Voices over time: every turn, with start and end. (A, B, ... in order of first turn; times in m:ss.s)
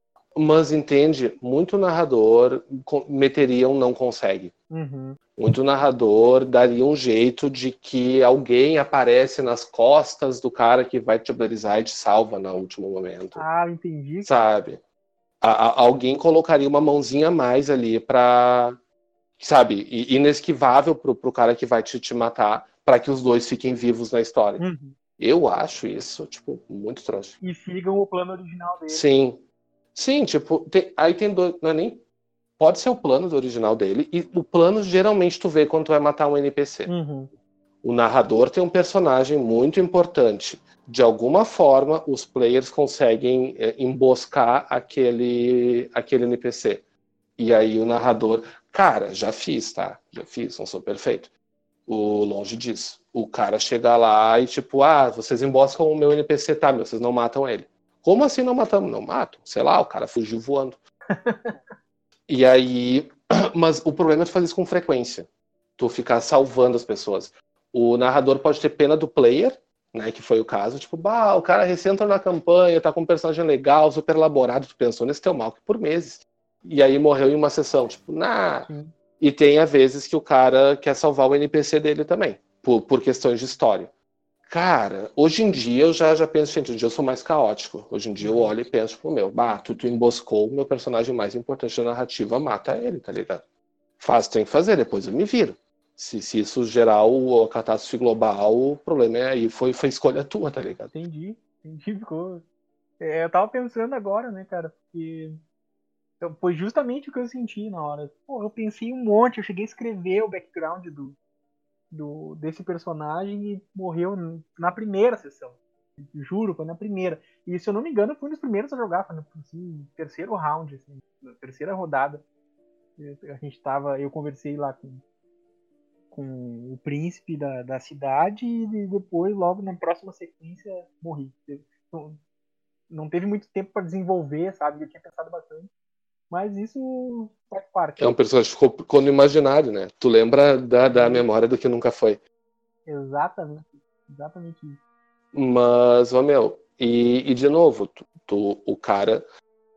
0:00.4-0:04.5 A
0:04.7-0:05.2 B
0:05.4-0:13.4 A
0:13.4-0:14.3 B
0:14.2-0:14.8 A
0:15.4-0:18.8 A
0:19.4-0:24.6 A
0:24.6-0:25.0 B
0:25.2-0:27.4 A
0:27.4-0:29.1 B
0:28.9-0:29.4 A
0:29.9-0:32.0 A
0:32.6-0:36.9 A
0:36.9-0:37.3 B
0:37.8-0:46.8 A
0:47.4-0:51.3 A
0:51.9-1:00.8 A
1:01.1-1:01.6 B
1:02.3-1:23.9 A
1:18.7-1:18.9 B
1:24.4-1:33.4 A
1:28.2-1:28.5 B
1:34.0-1:40.9 A
1:40.9-1:42.4 B
1:43.0-1:45.4 B
1:46.2-1:51.2 B
1:51.9-2:02.2 B
2:03.0-2:05.0 B
2:06.1-2:12.2 B
2:12.9-2:15.7 B
2:16.3-2:18.1 B
2:18.0-2:22.2 A
2:20.9-2:21.2 B
2:22.8-2:24.8 B
2:25.3-2:29.2 A